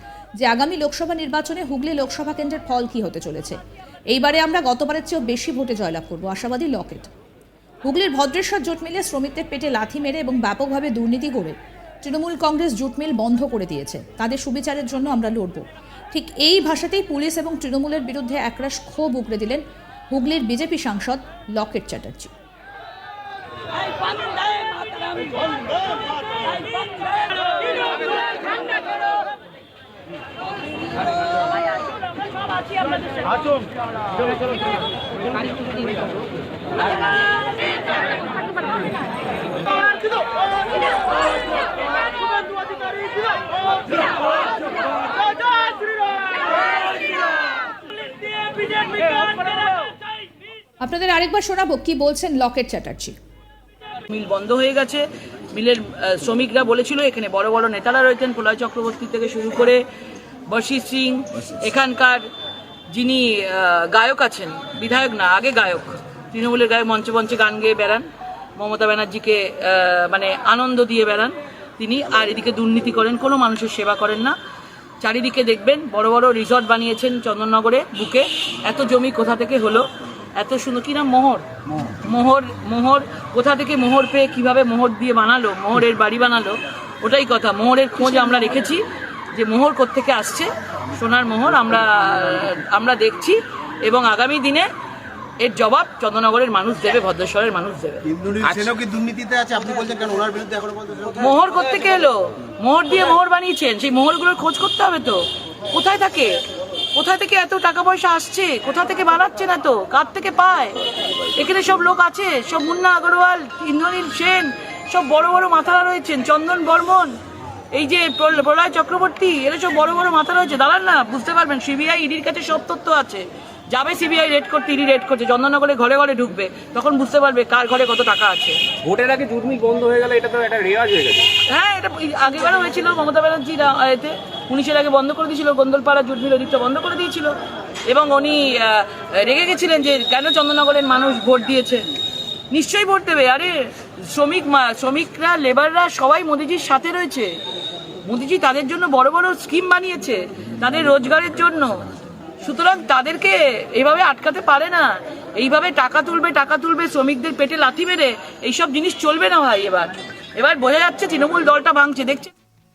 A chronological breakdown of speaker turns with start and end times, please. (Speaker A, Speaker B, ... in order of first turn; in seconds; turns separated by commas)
Speaker A: 0.4-3.6, Speaker A: 4.1-7.1, Speaker A: 7.9-22.3, Speaker B: 24.0-25.3, Speaker B: 26.6-28.3, Speaker B: 32.7-33.1, Speaker B: 48.6-49.7, Speaker A: 50.8-53.1, Speaker B: 54.1-59.8, Speaker B: 60.5-62.3, Speaker B: 62.9-68.1, Speaker B: 68.6-74.4, Speaker B: 75.0-81.5, Speaker B: 82.0-94.7, Speaker B: 95.4-98.0, Speaker C: 98.2-101.1, Speaker D: 98.4-98.7, Speaker B: 101.1-106.4, Speaker B: 107.0-110.8, Speaker B: 111.4-117.2, Speaker B: 117.7-128.7, Speaker D: 128.8-131.3, Speaker B: 131.4-137.4, Speaker B: 137.9-141.9, Speaker B: 142.5-147.4, Speaker B: 148.1-151.9, Speaker B: 152.4-162.3